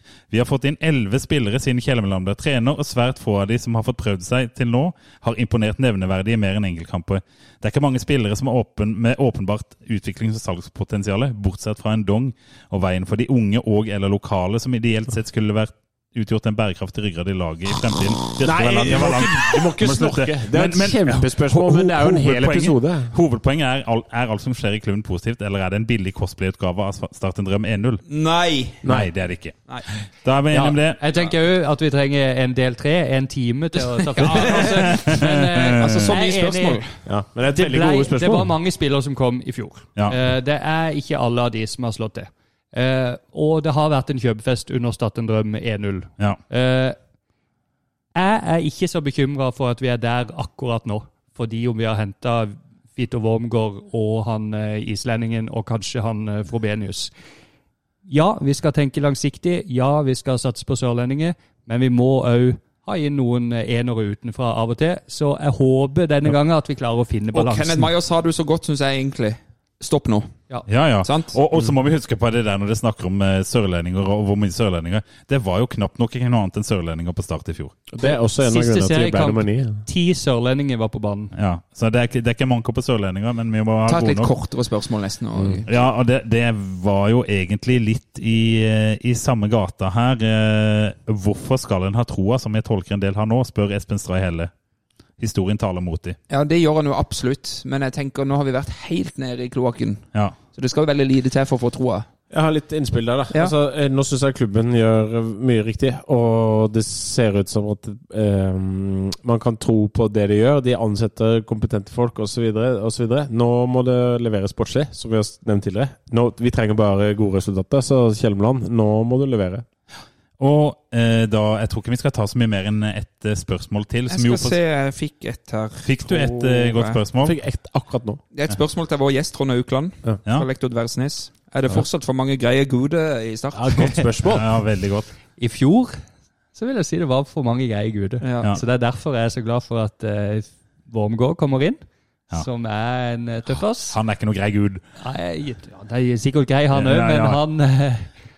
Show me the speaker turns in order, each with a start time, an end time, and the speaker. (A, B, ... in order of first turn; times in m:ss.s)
0:00.3-0:28.0 A
0:18.4-0:23.1 B
0:28.1-0:28.8 C
0:28.8-0:29.1 B
0:28.8-0:31.0 A
0:30.5-0:30.8 B
0:31.0-0:36.8 D
0:33.8-0:34.6 C
0:34.4-0:36.2 A
0:35.8-0:36.9 C
0:37.0-0:38.5 B
0:37.5-0:47.0 D
0:48.2-0:57.1 D
0:58.1-1:07.9 D
1:07.3-1:10.3 C
1:10.7-1:17.8 A
1:11.0-1:11.4 C
1:17.9-1:19.8 B
1:18.0-1:21.3 D
1:21.3-1:24.3 A
1:23.9-1:25.7 C
1:25.4-1:25.6 B
1:25.7-1:34.5 A
1:35.2-1:36.2 A
1:36.3-1:42.1 C
1:42.3-1:59.6 B
2:00.4-2:04.6 A
2:04.1-2:07.0 C
2:05.8-2:07.4 A
2:07.2-2:08.2 B
2:08.3-2:14.1 C
2:13.5-2:14.4 B
2:14.3-2:15.1 A
2:15.4-2:16.0 D
2:16.6-2:24.0 D
2:18.2-2:18.6 C
2:23.9-2:24.8 A
2:25.0-2:28.1 D
2:26.7-2:27.4 A